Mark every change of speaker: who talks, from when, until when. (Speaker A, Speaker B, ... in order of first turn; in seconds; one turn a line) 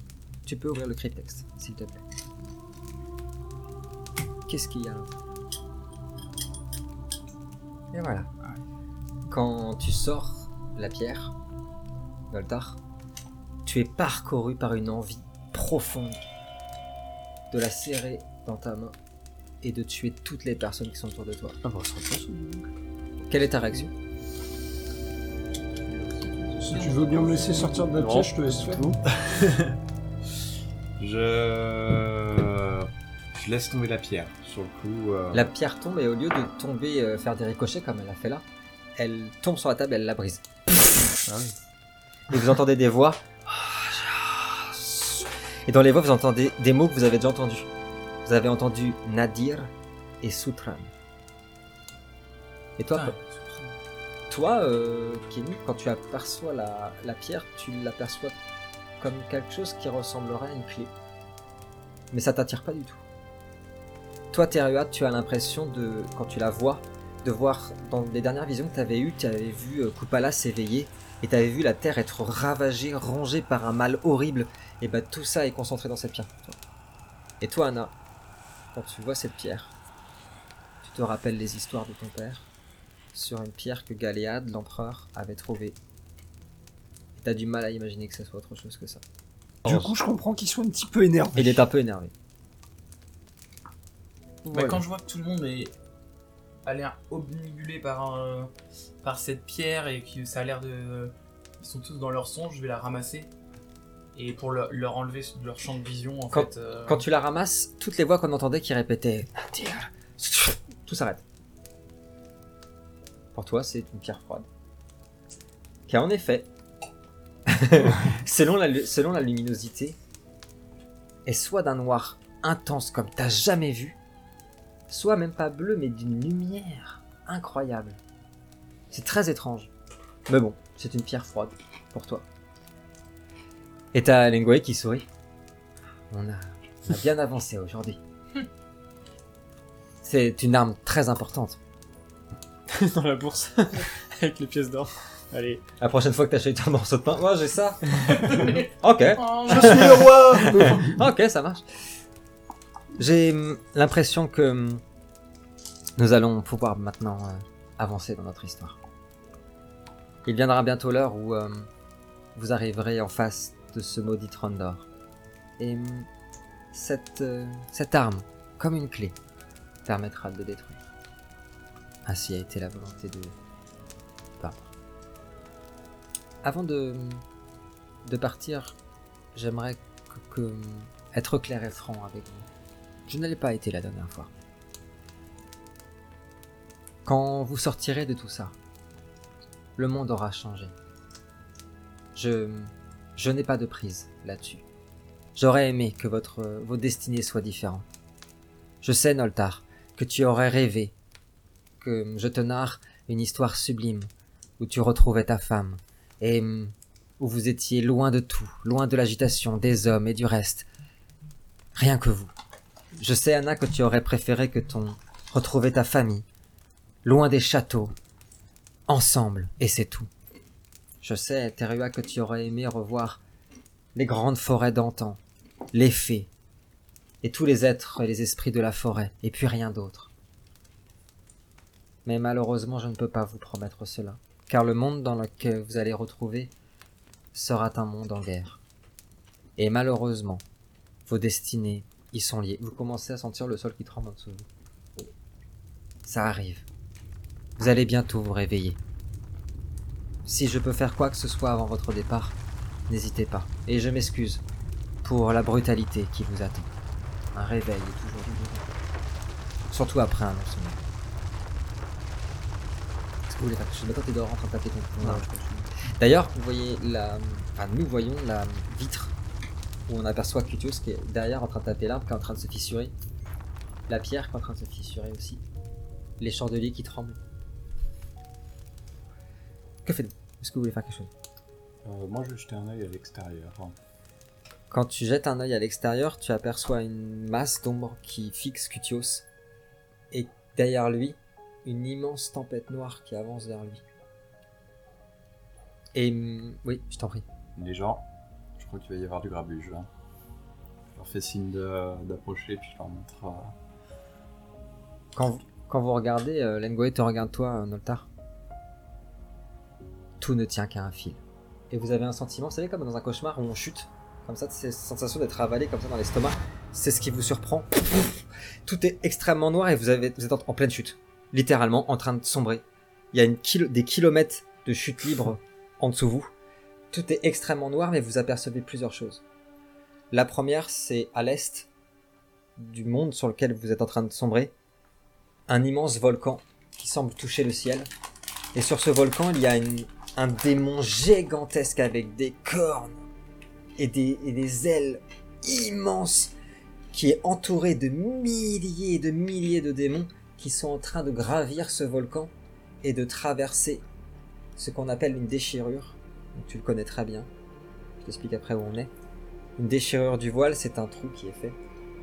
Speaker A: 0.5-2.0
Speaker A: 4.5-5.1
Speaker A: 7.9-8.3
Speaker A: 9.3-11.3
Speaker A: 12.3-12.8
Speaker A: 13.7-16.2
Speaker A: 17.5-19.0
Speaker A: 19.6-21.6
Speaker B: 21.6-22.7
Speaker A: 23.2-23.9
Speaker C: 25.9-27.7
Speaker D: 26.6-29.0
Speaker B: 27.9-29.0
Speaker E: 31.0-35.5
Speaker A: 35.3-38.5
Speaker A: 39.0-41.2
Speaker B: 41.2-41.6
Speaker A: 42.3-47.7
Speaker A: 48.2-49.7
Speaker A: 50.2-50.9
Speaker A: 52.8-53.2
Speaker C: 52.9-53.8
Speaker A: 54.3-58.4
Speaker A: 59.0-60.9
Speaker A: 62.1-63.0
Speaker A: 64.3-76.6
Speaker A: 77.4-77.9
Speaker A: 78.7-79.7
Speaker A: 80.8-82.5
Speaker A: 83.1-85.8
Speaker A: 87.2-89.0
Speaker A: 89.7-89.9
Speaker D: 89.7-91.6
Speaker A: 91.3-92.1
Speaker C: 94.5-95.7
Speaker A: 94.5-94.8
Speaker C: 96.7-98.5
Speaker C: 99.0-103.3
Speaker C: 104.2-107.0
Speaker A: 106.3-111.2
Speaker A: 113.3-114.5
Speaker A: 115.9-116.5
Speaker A: 117.5-120.0
Speaker A: 121.3-124.0
Speaker A: 124.9-128.0
Speaker A: 128.9-129.7
Speaker A: 130.3-132.3
Speaker A: 133.9-135.1
Speaker A: 136.1-138.0
Speaker A: 140.0-141.6
Speaker B: 142.7-145.6
Speaker A: 145.8-151.6
Speaker C: 148.1-150.7
Speaker D: 149.5-151.0
Speaker A: 153.0-154.8
Speaker A: 156.0-158.8
Speaker A: 160.2-161.7
Speaker A: 162.3-164.9
Speaker A: 165.6-166.1
Speaker A: 166.7-169.2
Speaker A: 169.9-170.8
Speaker A: 172.1-173.3
Speaker A: 174.4-174.7
Speaker A: 176.4-177.2
Speaker A: 178.1-178.8
Speaker A: 179.3-182.5
Speaker A: 183.1-184.3
Speaker A: 187.1-188.6
Speaker A: 189.8-190.7
Speaker A: 192.2-194.6
Speaker A: 195.3-197.9
Speaker A: 198.8-200.9
Speaker A: 201.8-210.7
Speaker A: 211.8-212.3
Speaker A: 213.0-216.3
Speaker A: 217.0-217.9
Speaker A: 218.9-220.1
Speaker A: 221.0-223.2
Speaker A: 223.9-225.2
Speaker A: 225.7-226.3
Speaker A: 227.2-230.1
Speaker A: 232.1-236.5
Speaker A: 237.3-238.6
Speaker A: 239.6-240.4
Speaker A: 241.1-244.5
Speaker A: 246.1-246.7
Speaker A: 247.6-248.8
Speaker A: 250.2-252.4
Speaker A: 252.9-254.4
Speaker A: 255.0-256.7
Speaker A: 257.3-258.7
Speaker A: 259.7-260.8
Speaker A: 263.3-269.1
Speaker A: 269.9-272.9
Speaker A: 273.9-275.4
Speaker A: 276.2-277.2
Speaker A: 279.9-281.1
Speaker E: 281.8-283.8
Speaker A: 284.7-289.2
Speaker A: 290.1-293.8
Speaker A: 295.9-297.2
Speaker E: 297.6-298.0
Speaker E: 298.6-299.9
Speaker E: 300.9-303.6
Speaker A: 305.1-308.1
Speaker A: 310.2-326.3
Speaker A: 326.9-329.2
Speaker A: 330.1-331.7
Speaker A: 332.6-334.5
Speaker A: 335.5-337.9
Speaker A: 338.6-343.0
Speaker A: 343.8-346.3
Speaker A: 346.9-353.8
Speaker A: 354.6-357.3
Speaker A: 358.0-358.9
Speaker A: 359.6-361.6